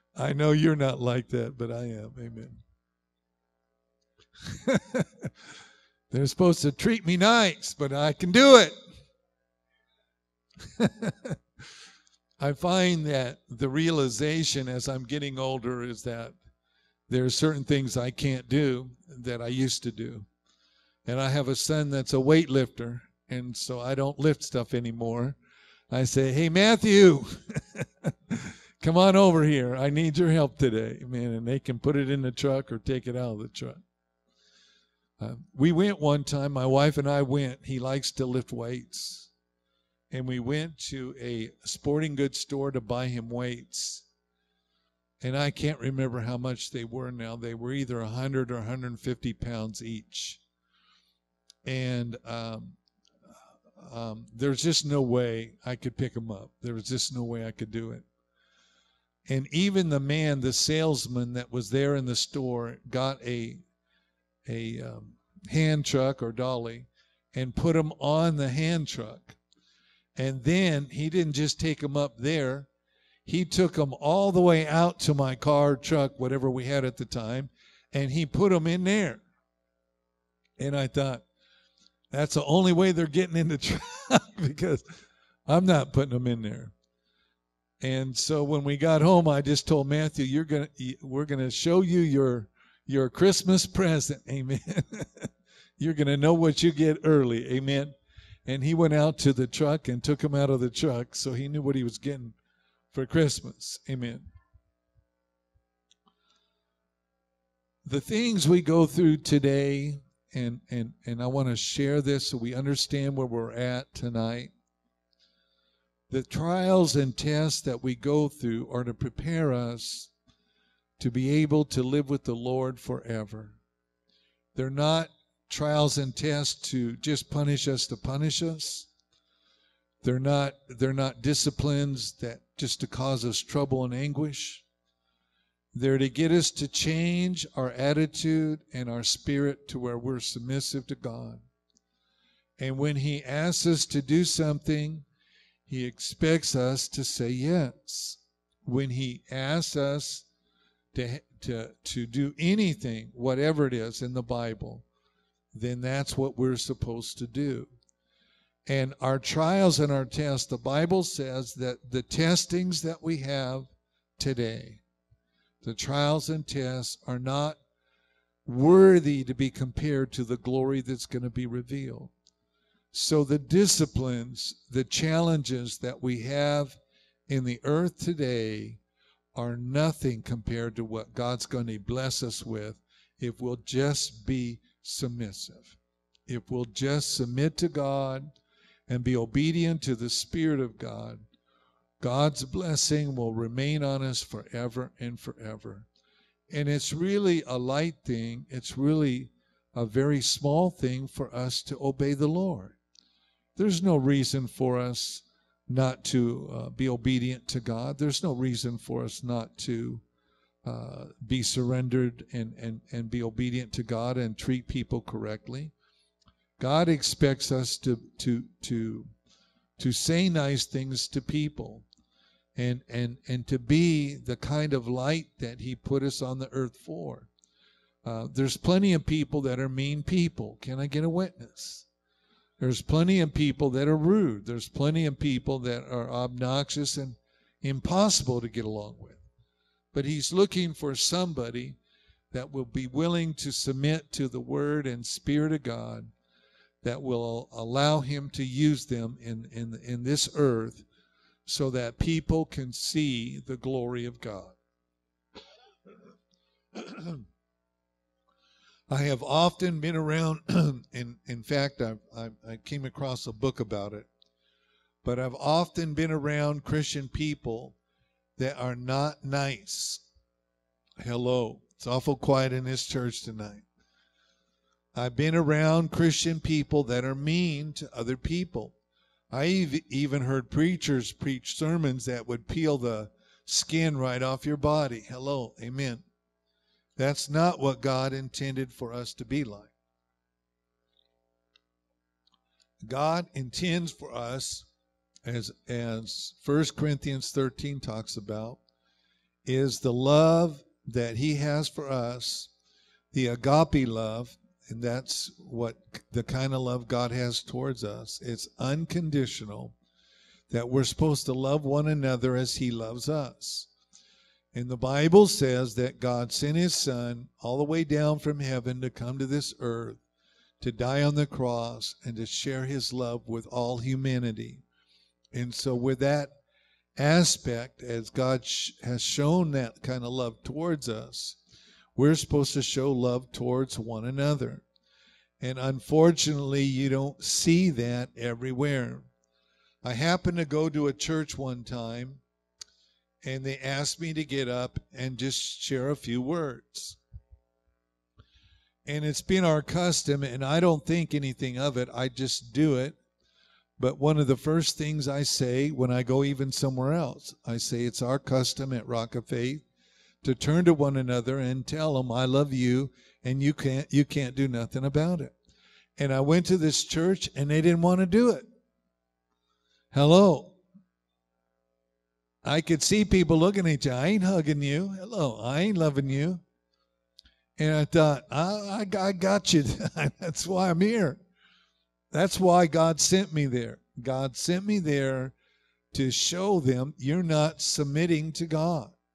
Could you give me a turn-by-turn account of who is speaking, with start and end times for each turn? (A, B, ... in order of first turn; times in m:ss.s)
0:00.2-0:02.6 A
0:04.5-0:05.3 A
0:06.1-0:08.8 A
0:10.8-0:11.4 A
0:12.4-0:16.4 A
0:17.1-0:20.3 A
0:21.1-0:25.4 A
0:25.9-0:33.8 A
0:35.2-0:39.3 A
0:40.1-0:44.0 A
0:45.2-0:50.4 A
0:51.6-0:52.8 A
0:53.8-0:58.0 A
0:59.3-1:03.6 A
1:04.5-1:09.4 A
1:10.2-1:12.7 A
1:13.3-1:19.2 A
1:20.6-1:21.2 A
1:22.1-1:24.8 A
1:25.5-1:26.7 A
1:27.8-1:37.9 A
1:38.5-1:42.4 A
1:42.9-1:44.3 A
1:47.8-1:54.5 A
1:56.1-2:00.1 A
2:01.0-2:03.6 A
2:04.6-2:08.9 A
2:10.0-2:14.6 A
2:15.7-2:21.4 A
2:22.6-2:25.0 A
2:25.7-2:30.3 A
2:30.9-2:34.8 A
2:35.5-2:37.7 A
2:38.7-2:44.8 A
2:45.6-2:47.6 A
2:48.5-2:52.1 A
2:52.9-2:58.8 A
2:59.4-3:08.3 A
3:08.9-3:11.2 A
3:12.0-3:15.9 A
3:16.5-3:22.8 A
3:23.6-3:30.0 A
3:30.6-3:35.7 A
3:36.6-3:39.1 A
3:39.8-3:41.8 A
3:42.6-3:47.3 A
3:48.0-3:51.9 A
3:52.6-3:59.2 A
3:59.9-4:01.8 A
4:02.3-4:06.1 A
4:06.8-4:10.8 A
4:11.5-4:14.5 A
4:16.8-4:17.2 A
4:18.9-4:24.1 A
4:25.0-4:27.8 A
4:28.4-4:30.0 A
4:31.0-4:33.6 A
4:35.0-4:38.8 A
4:39.3-4:46.0 A
4:47.0-4:49.7 A
4:52.8-4:54.7 A
4:55.3-4:58.6 A
4:59.4-5:02.5 A
5:03.1-5:09.8 A
5:10.5-5:13.7 A
5:14.5-5:20.0 A
5:20.6-5:24.6 A
5:25.3-5:26.3 A
5:27.0-5:31.4 A
5:32.0-5:34.6 A
5:35.4-5:39.1 A
5:39.8-5:42.2 A
5:43.2-5:47.0 A
5:48.9-5:53.0 A
5:53.8-5:59.6 A
6:00.2-6:05.3 A
6:06.0-6:08.4 A
6:09.9-6:10.6 A
6:12.4-6:16.4 A
6:17.6-6:21.2 A
6:22.1-6:25.3 A
6:25.9-6:28.9 A